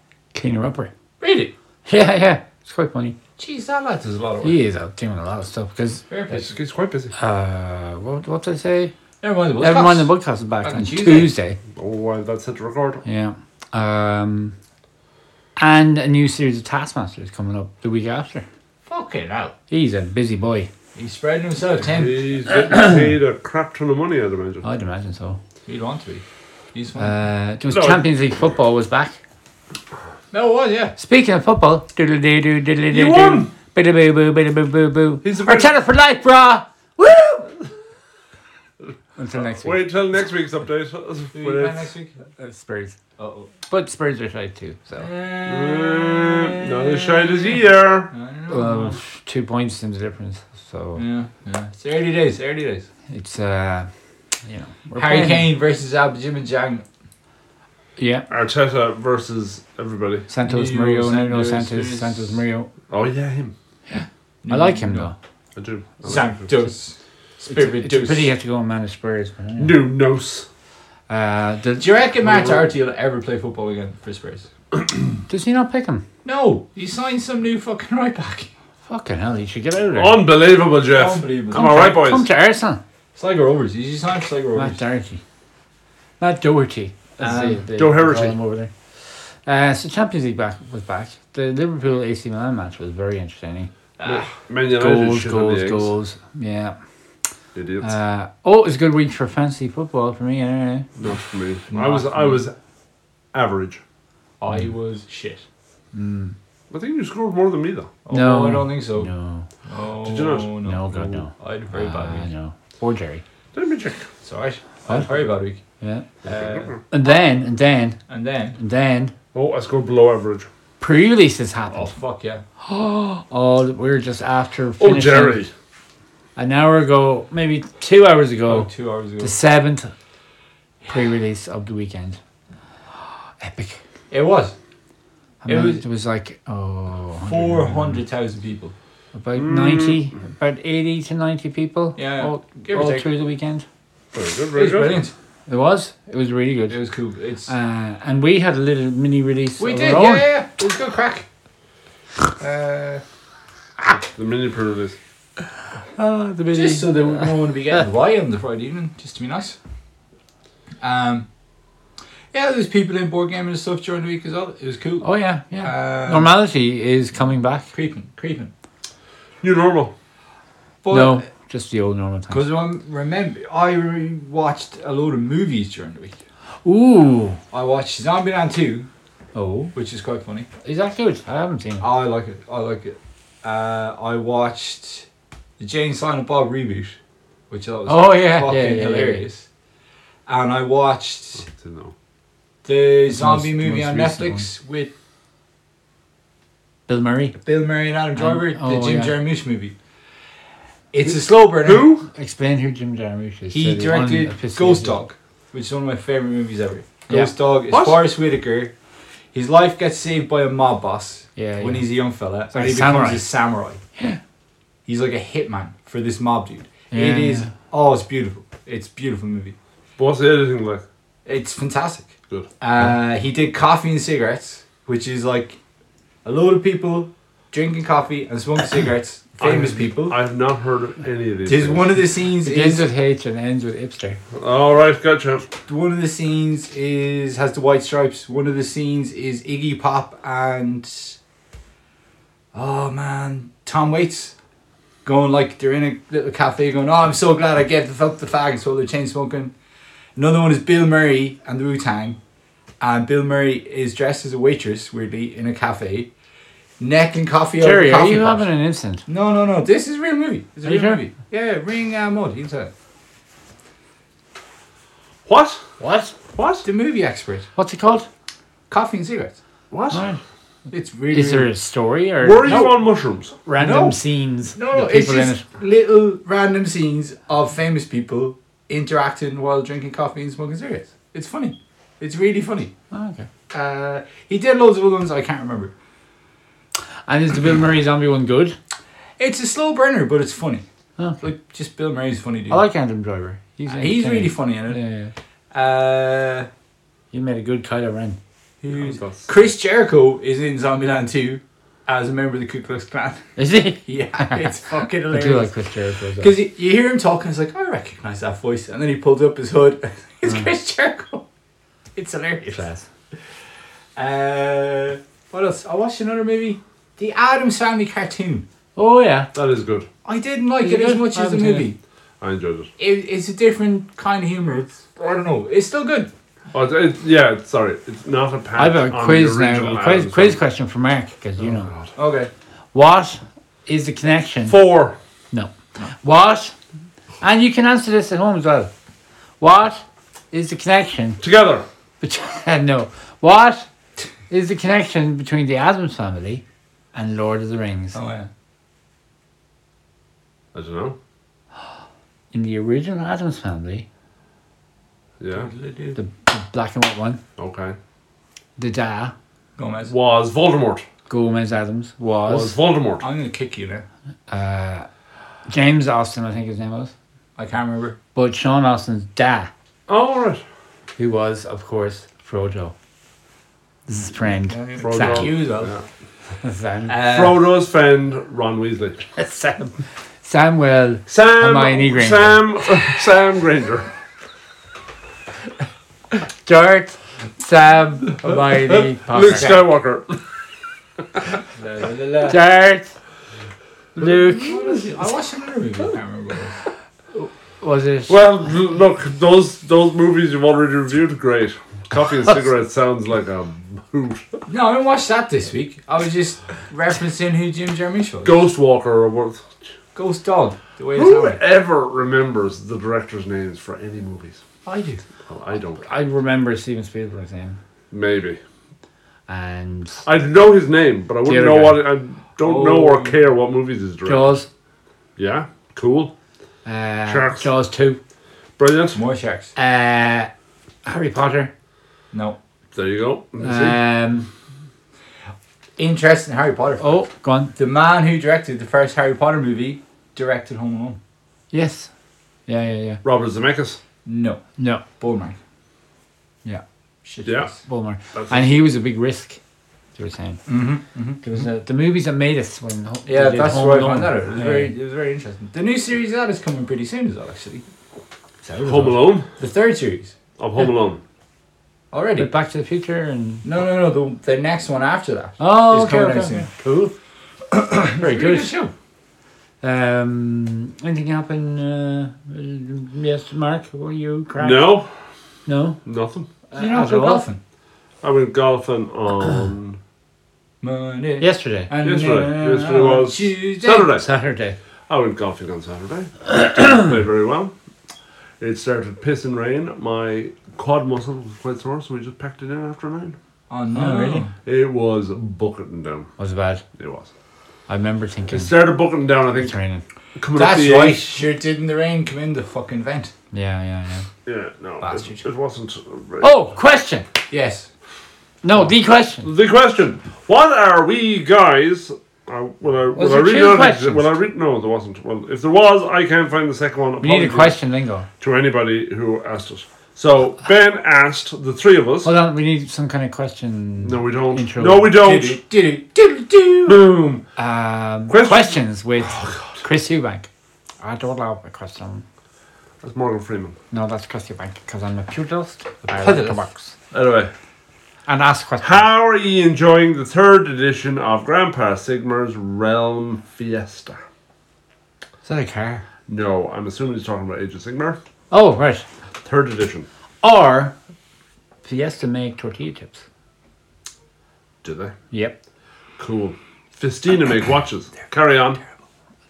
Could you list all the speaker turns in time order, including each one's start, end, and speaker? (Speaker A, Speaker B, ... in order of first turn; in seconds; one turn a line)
Speaker A: 0.3-0.9
Speaker B: 1.2-1.5
Speaker A: 1.9-3.1
Speaker B: 3.4-4.6
Speaker A: 4.4-6.0
Speaker B: 6.1-6.5
Speaker C: 6.3-7.1
Speaker A: 7.2-8.9
Speaker B: 9.2-10.1
Speaker A: 9.6-11.6
Speaker B: 10.6-11.3
Speaker C: 11.8-13.0
Speaker A: 13.0-14.5
Speaker A: 15.6-18.4
Speaker B: 18.9-19.5
Speaker A: 19.7-20.7
Speaker B: 20.9-22.3
Speaker C: 21.7-24.6
Speaker A: 24.6-25.4
Speaker B: 25.6-27.1
Speaker A: 27.0-29.2
Speaker C: 27.7-28.0
Speaker B: 30.3-30.9
Speaker A: 31.0-37.6
Speaker C: 32.9-33.5
Speaker C: 35.2-35.7
Speaker A: 39.2-39.8
Speaker C: 39.6-41.9
Speaker B: 41.3-42.1
Speaker A: 42.4-43.0
Speaker B: 43.2-43.5
Speaker A: 43.7-45.1
Speaker B: 45.0-49.0
Speaker C: 45.5-48.1
Speaker A: 48.5-51.0
Speaker B: 51.0-52.9
Speaker A: 53.1-53.9
Speaker A: 54.4-55.5
Speaker B: 55.0-56.8
Speaker A: 58.0-58.3
Speaker C: 58.3-60.3
Speaker A: 60.3-62.7
Speaker B: 60.4-62.4
Speaker C: 62.9-63.5
Speaker A: 63.9-65.2
Speaker B: 64.4-65.1
Speaker C: 65.5-66.5
Speaker B: 66.0-68.3
Speaker A: 67.5-69.8
Speaker C: 69.6-70.5
Speaker A: 71.1-71.9
Speaker B: 71.8-74.5
Speaker C: 72.2-72.7
Speaker A: 75.3-76.0
Speaker B: 76.2-78.5
Speaker A: 78.9-80.2
Speaker C: 80.0-82.3
Speaker B: 80.9-81.9
Speaker A: 81.5-82.8
Speaker B: 83.2-84.8
Speaker A: 84.5-85.2
Speaker A: 86.2-93.7
Speaker B: 87.2-87.6
Speaker C: 87.8-88.4
Speaker B: 94.0-94.3
Speaker C: 94.0-95.9
Speaker A: 94.7-96.8
Speaker C: 97.5-97.9
Speaker A: 97.8-100.9
Speaker C: 101.0-102.5
Speaker B: 101.7-102.4
Speaker C: 103.3-103.8
Speaker B: 104.4-105.4
Speaker A: 105.9-106.3
Speaker C: 106.7-107.9
Speaker B: 108.0-109.1
Speaker A: 108.1-109.5
Speaker B: 109.7-112.3
Speaker C: 110.0-110.5
Speaker A: 110.6-113.2
Speaker C: 113.5-114.1
Speaker B: 114.2-115.6
Speaker A: 115.8-116.1
Speaker B: 116.2-116.7
Speaker C: 116.2-116.8
Speaker A: 116.9-118.0
Speaker B: 118.1-118.6
Speaker A: 118.6-119.1
Speaker C: 119.3-120.5
Speaker A: 120.8-121.9
Speaker B: 121.7-122.4
Speaker A: 122.6-125.4
Speaker C: 124.8-125.5
Speaker A: 126.3-128.7
Speaker B: 128.5-129.3
Speaker A: 129.2-129.9
Speaker A: 130.9-132.2
Speaker A: 133.4-133.8
Speaker B: 134.1-134.5
Speaker A: 135.4-138.0
Speaker B: 135.4-135.8
Speaker B: 137.2-138.7
Speaker A: 139.1-143.6
Speaker C: 139.3-140.0
Speaker B: 142.0-143.1
Speaker C: 144.1-145.0
Speaker B: 144.5-145.1
Speaker A: 145.5-146.8
Speaker B: 146.7-147.5
Speaker A: 147.4-150.3
Speaker B: 149.6-151.2
Speaker B: 152.4-153.0
Speaker C: 154.2-155.0
Speaker A: 155.9-157.3
Speaker B: 156.5-159.6
Speaker B: 160.8-161.3
Speaker B: 162.3-165.1
Speaker A: 165.0-167.7
Speaker B: 165.6-166.3
Speaker B: 167.7-168.5
Speaker C: 169.4-169.9
Speaker B: 170.8-171.2
Speaker A: 170.9-172.5
Speaker B: 172.3-176.2
Speaker A: 176.6-177.4
Speaker B: 177.5-178.9
Speaker A: 179.3-179.7
Speaker B: 179.7-180.5
Speaker A: 180.6-181.9
Speaker B: 181.8-185.1
Speaker B: 185.6-187.0
Speaker B: 187.5-189.4
Speaker A: 187.9-189.2
Speaker B: 190.3-191.5
Speaker C: 191.4-191.9
Speaker B: 192.6-194.9
Speaker A: 193.1-194.5
Speaker A: 196.9-197.4
Speaker B: 197.4-199.7
Speaker A: 198.1-199.2
Speaker B: 200.9-201.9
Speaker C: 201.1-202.1
Speaker A: 202.1-205.0
Speaker B: 203.5-208.7
Speaker C: 207.7-208.0
Speaker B: 209.3-213.8
Speaker A: 211.3-211.8
Speaker A: 212.5-213.2
Speaker B: 214.8-219.5
Speaker A: 216.9-217.5
Speaker C: 220.0-220.8
Speaker B: 221.2-225.6
Speaker B: 226.2-230.2
Speaker C: 229.4-231.9
Speaker B: 231.4-232.8
Speaker A: 232.4-234.2
Speaker C: 234.3-235.5
Speaker B: 235.7-241.2
Speaker B: 242.5-244.3
Speaker B: 245.0-249.5
Speaker B: 250.2-252.2
Speaker B: 252.8-256.1
Speaker B: 256.8-258.5
Speaker A: 257.6-259.0
Speaker B: 259.1-262.7
Speaker A: 260.6-261.0
Speaker C: 265.2-265.6
Speaker A: 265.8-266.1
Speaker C: 266.3-266.6
Speaker B: 266.6-267.5
Speaker A: 267.6-268.1
Speaker B: 268.7-269.4
Speaker C: 269.7-270.0
Speaker A: 269.9-270.2
Speaker B: 270.7-271.5
Speaker A: 271.1-272.7
Speaker C: 272.2-273.4
Speaker B: 272.5-272.7
Speaker A: 273.4-275.4
Speaker B: 273.6-274.0
Speaker B: 274.5-282.7
Speaker A: 282.9-283.3
Speaker B: 283.5-285.7
Speaker A: 287.1-288.6
Speaker B: 289.2-290.6
Speaker B: 291.2-292.6
Speaker A: 292.5-295.1
Speaker B: 293.7-294.8
Speaker B: 295.5-296.5
Speaker A: 297.1-298.2
Speaker B: 298.6-305.5
Speaker C: 298.7-299.3
Speaker A: 303.4-306.3
Speaker B: 306.2-311.2
Speaker B: 311.9-312.7
Speaker A: 312.5-312.8
Speaker B: 313.9-318.4
Speaker A: 318.8-319.3
Speaker C: 319.3-319.9
Speaker B: 320.0-321.8
Speaker A: 320.6-321.7
Speaker C: 322.2-322.7
Speaker B: 322.8-326.1
Speaker C: 326.5-330.4
Speaker A: 328.6-331.7
Speaker C: 331.4-331.9
Speaker B: 331.9-332.3
Speaker A: 332.7-334.6
Speaker C: 334.5-335.0
Speaker A: 335.3-336.5
Speaker A: 337.2-338.7
Speaker A: 339.4-341.2
Speaker C: 341.2-341.6
Speaker A: 342.0-343.7
Speaker A: 344.3-346.4
Speaker A: 346.9-348.0
Speaker B: 347.9-348.3
Speaker C: 350.5-351.0
Speaker A: 352.3-353.9
Speaker C: 355.2-355.5
Speaker B: 355.3-356.0
Speaker A: 355.9-357.2
Speaker C: 357.4-357.8
Speaker A: 358.6-359.1
Speaker B: 359.6-359.9
Speaker C: 359.9-360.8
Speaker A: 361.1-362.6
Speaker C: 362.3-363.1
Speaker B: 363.0-363.8
Speaker A: 364.3-364.9
Speaker A: 365.5-366.9
Speaker B: 367.4-368.0
Speaker A: 368.1-369.5
Speaker C: 369.9-370.4
Speaker A: 371.0-372.7
Speaker A: 373.9-375.3
Speaker B: 374.5-375.7
Speaker C: 374.8-375.9
Speaker A: 376.4-377.0
Speaker B: 376.9-377.4
Speaker C: 377.0-379.0
Speaker A: 379.1-382.4
Speaker C: 381.1-383.9
Speaker A: 386.2-389.6
Speaker C: 388.3-390.2
Speaker B: 391.5-392.4
Speaker A: 392.2-392.9
Speaker A: 393.9-394.8
Speaker B: 394.3-396.6
Speaker A: 397.1-398.3
Speaker C: 398.1-404.3
Speaker B: 404.5-408.4
Speaker C: 408.2-409.6
Speaker B: 409.9-411.4
Speaker C: 410.9-414.4
Speaker B: 414.6-415.0
Speaker C: 415.2-415.9
Speaker A: 415.8-417.6
Speaker C: 417.9-418.4
Speaker A: 419.3-420.0
Speaker C: 420.0-424.3
Speaker A: 421.2-421.8
Speaker B: 422.4-423.2
Speaker A: 424.0-424.5
Speaker C: 425.2-426.1
Speaker A: 426.6-428.0
Speaker C: 427.1-427.5
Speaker C: 428.6-429.0
Speaker B: 428.9-429.5
Speaker A: 429.6-430.3
Speaker A: 430.8-431.5
Speaker B: 432.1-432.4
Speaker C: 432.7-433.8
Speaker A: 433.4-434.3
Speaker B: 435.8-436.9
Speaker A: 436.8-437.5
Speaker B: 437.6-441.0
Speaker A: 441.5-441.9
Speaker A: 442.5-443.0
Speaker C: 443.0-443.8
Speaker B: 444.0-444.4
Speaker A: 444.6-444.8
Speaker B: 445.0-445.4
Speaker B: 447.0-447.6
Speaker C: 447.2-447.5
Speaker A: 447.6-449.4
Speaker C: 448.1-448.5
Speaker A: 449.9-450.4
Speaker B: 450.5-451.3
Speaker A: 451.2-454.7
Speaker B: 453.1-457.6
Speaker B: 458.4-460.1
Speaker C: 458.6-459.3
Speaker C: 460.4-461.0
Speaker B: 461.9-462.3
Speaker A: 462.2-463.4
Speaker B: 463.4-466.5
Speaker A: 465.4-466.9
Speaker B: 467.5-468.7
Speaker A: 468.0-468.5
Speaker A: 469.6-474.7
Speaker C: 474.4-474.9
Speaker A: 475.4-475.8
Speaker C: 475.9-476.3
Speaker A: 476.5-477.2
Speaker B: 476.6-477.4
Speaker C: 478.0-479.8
Speaker B: 480.6-483.9
Speaker A: 481.2-481.7
Speaker C: 481.8-484.1
Speaker A: 483.9-484.6
Speaker C: 484.9-487.5
Speaker C: 488.4-493.1
Speaker B: 493.5-494.3
Speaker A: 493.7-494.3
Speaker C: 494.4-496.1
Speaker A: 496.2-496.6
Speaker C: 496.7-497.1
Speaker A: 497.7-498.6
Speaker C: 498.3-499.6
Speaker A: 499.4-499.8
Speaker C: 500.1-501.0
Speaker B: 500.3-503.1
Speaker A: 503.3-504.1
Speaker C: 504.2-506.3
Speaker B: 504.8-505.2
Speaker A: 506.2-507.1
Speaker B: 507.3-507.7
Speaker A: 508.4-509.3
Speaker C: 509.2-517.6
Speaker A: 512.9-514.1
Speaker A: 517.0-518.1
Speaker C: 518.2-522.1
Speaker A: 522.0-524.9
Speaker C: 523.8-525.4
Speaker B: 525.0-526.8
Speaker C: 526.7-527.2
Speaker A: 527.4-530.3
Speaker C: 528.1-529.6
Speaker A: 530.8-532.0
Speaker C: 532.8-533.6
Speaker A: 533.7-536.7
Speaker B: 535.9-536.5
Speaker C: 536.9-537.3
Speaker A: 538.1-538.8
Speaker C: 538.6-544.0
Speaker A: 545.2-545.9
Speaker C: 546.1-548.0
Speaker A: 548.3-548.9
Speaker C: 549.2-549.9
Speaker A: 550.2-550.8
Speaker A: 551.6-553.0
Speaker C: 554.6-554.9
Speaker A: 555.1-555.4
Speaker C: 556.0-558.6